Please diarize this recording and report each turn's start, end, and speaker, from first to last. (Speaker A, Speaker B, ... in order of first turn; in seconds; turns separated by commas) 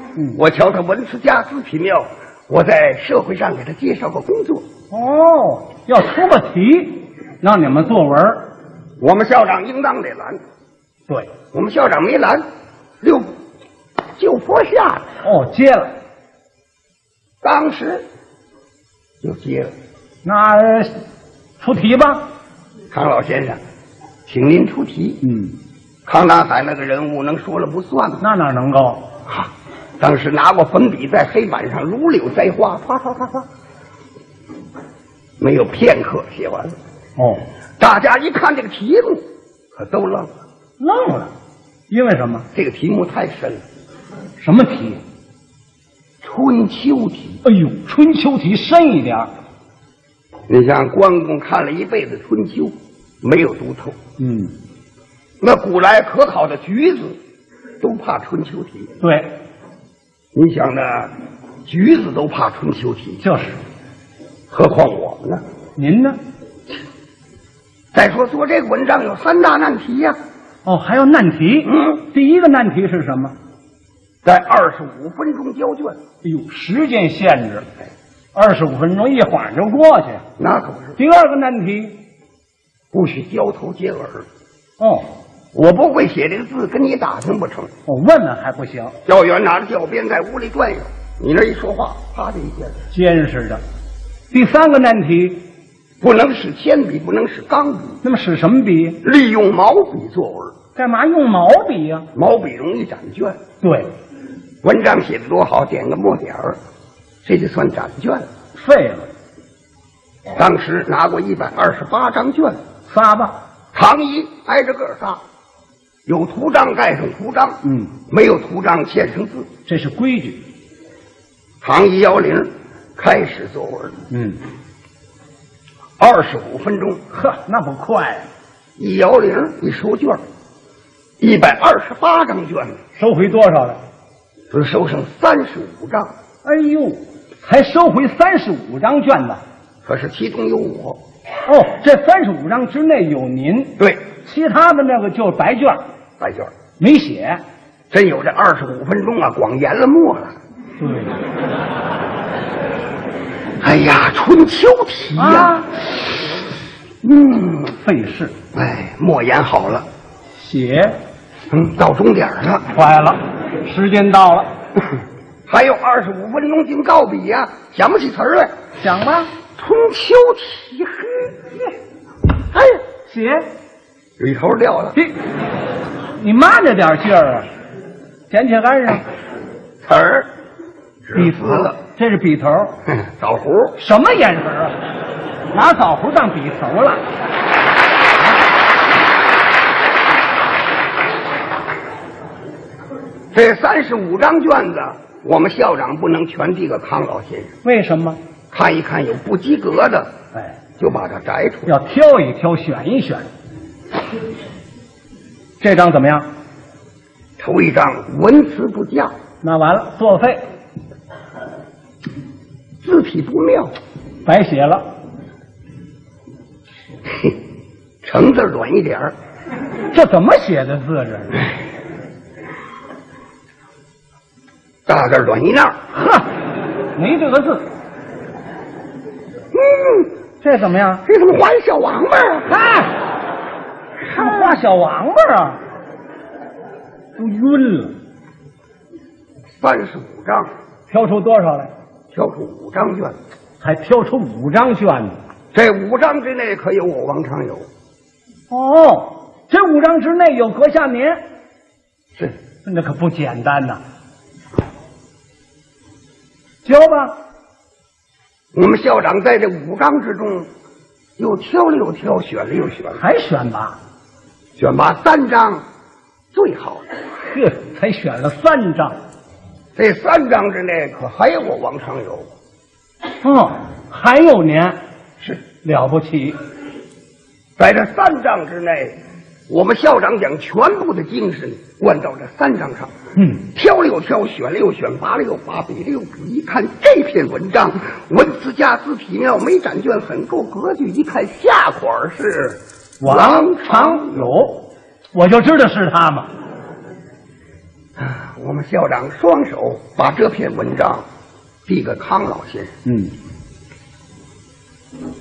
Speaker A: 0.3-4.7, Speaker B: 4.9-8.5, Speaker A: 9.0-10.4, Speaker A: 11.5-12.4, Speaker A: 13.0-13.3, Speaker A: 14.2-15.1, Speaker B: 15.2-15.9, Speaker A: 17.4-18.1, Speaker A: 19.2-19.7, Speaker B: 20.2-21.0, Speaker B: 21.6-22.3, Speaker A: 22.9-23.6, Speaker A: 24.3-25.3, Speaker B: 25.2-25.6, Speaker A: 26.1-28.2, Speaker B: 28.2-29.1, Speaker A: 29.3-33.4, Speaker A: 35.4-36.8, Speaker B: 37.2-37.4, Speaker A: 37.8-40.3, Speaker B: 40.8-41.3, Speaker B: 41.9-42.5, Speaker A: 42.5-43.6, Speaker B: 44.4-45.0, Speaker A: 46.2-47.4, Speaker B: 47.4-49.3, Speaker A: 50.5-54.0, Speaker B: 54.2-54.5, Speaker A: 55.4-57.2, Speaker A: 57.8-58.9, Speaker B: 59.0-59.3, Speaker A: 60.3-61.1, Speaker A: 61.6-63.2, Speaker B: 63.2-63.6, Speaker A: 64.5-65.4, Speaker B: 65.8-66.2, Speaker A: 67.9-70.2, Speaker B: 70.7-73.3, Speaker A: 71.7-72.0, Speaker A: 74.2-76.0, Speaker B: 76.2-77.7, Speaker B: 78.3-80.2, Speaker A: 80.4-81.0, Speaker B: 81.0-82.0, Speaker A: 82.9-84.3, Speaker B: 84.8-85.1, Speaker A: 85.5-87.7, Speaker B: 87.9-89.0, Speaker A: 89.1-92.8, Speaker B: 92.9-93.6, Speaker B: 94.3-95.4, Speaker A: 96.0-98.0, Speaker B: 98.0-99.0, Speaker A: 99.0-100.5, Speaker B: 100.8-102.1, Speaker A: 102.1-103.4, Speaker B: 103.6-103.9, Speaker A: 104.6-106.6, Speaker A: 107.2-108.3, Speaker B: 108.5-109.1, Speaker A: 110.3-112.6, Speaker B: 112.9-113.4, Speaker A: 113.7-115.2, Speaker A: 116.1-119.5, Speaker B: 117.6-117.9, Speaker B: 119.7-120.4, Speaker A: 121.6-124.0, Speaker B: 124.1-124.4, Speaker A: 126.0-127.0, Speaker B: 127.1-128.3, Speaker A: 128.8-130.2, Speaker A: 131.2-132.8, Speaker B: 132.9-133.8, Speaker A: 134.5-136.1, Speaker B: 136.4-139.4, Speaker A: 139.8-141.0, Speaker B: 141.5-145.8, Speaker A: 143.8-144.0, Speaker A: 146.2-146.5, Speaker B: 146.8-147.4, Speaker A: 147.9-150.4, Speaker B: 150.8-151.2, Speaker A: 153.6-155.7, Speaker B: 155.2-155.7, Speaker A: 157.0-157.6, Speaker B: 157.6-158.3, Speaker A: 158.5-159.9, Speaker B: 160.4-161.0, Speaker A: 161.5-162.7, Speaker B: 162.7-164.5, Speaker A: 165.5-168.5, Speaker B: 168.8-169.3, Speaker A: 169.6-171.3, Speaker B: 172.6-173.5, Speaker A: 174.2-175.0, Speaker B: 176.1-177.5, Speaker B: 178.3-179.1, Speaker A: 179.8-180.3, Speaker A: 181.0-181.8, Speaker B: 181.1-182.8, Speaker A: 182.9-183.8, Speaker B: 183.8-184.8, Speaker B: 185.5-187.0, Speaker A: 193.3-197.5, Speaker B: 197.6-198.2, Speaker A: 198.5-200.1, Speaker A: 200.8-201.7, Speaker B: 201.7-203.3, Speaker B: 205.6-206.3, Speaker A: 207.4-209.1, Speaker B: 209.4-210.4, Speaker A: 212.8-213.7, Speaker B: 214.2-214.9, Speaker A: 218.0-219.1, Speaker B: 219.9-221.5, Speaker A: 224.9-225.8, Speaker B: 225.9-226.3, Speaker B: 226.9-227.7, Speaker A: 229.5-230.1, Speaker B: 230.4-231.0, Speaker A: 231.1-232.5, Speaker B: 232.5-233.0, Speaker A: 234.1-234.6, Speaker B: 234.1-235.6, Speaker B: 237.2-238.0, Speaker A: 239.6-240.5, Speaker B: 240.9-241.7, Speaker A: 242.1-243.2, Speaker B: 243.6-245.2, Speaker A: 245.5-247.7, Speaker B: 248.5-251.2, Speaker B: 252.6-253.8, Speaker B: 256.6-257.2, Speaker A: 258.5-260.5, Speaker A: 261.2-263.0, Speaker B: 262.9-263.8, Speaker A: 264.6-265.6, Speaker A: 266.3-266.9, Speaker B: 267.2-269.0, Speaker A: 269.8-272.3, Speaker B: 273.2-274.8, Speaker B: 275.6-276.4, Speaker A: 277.6-282.9, Speaker B: 283.2-283.4, Speaker A: 283.5-294.4, Speaker B: 293.0-296.3, Speaker A: 298.0-301.1, Speaker A: 301.7-302.7, Speaker B: 302.9-303.1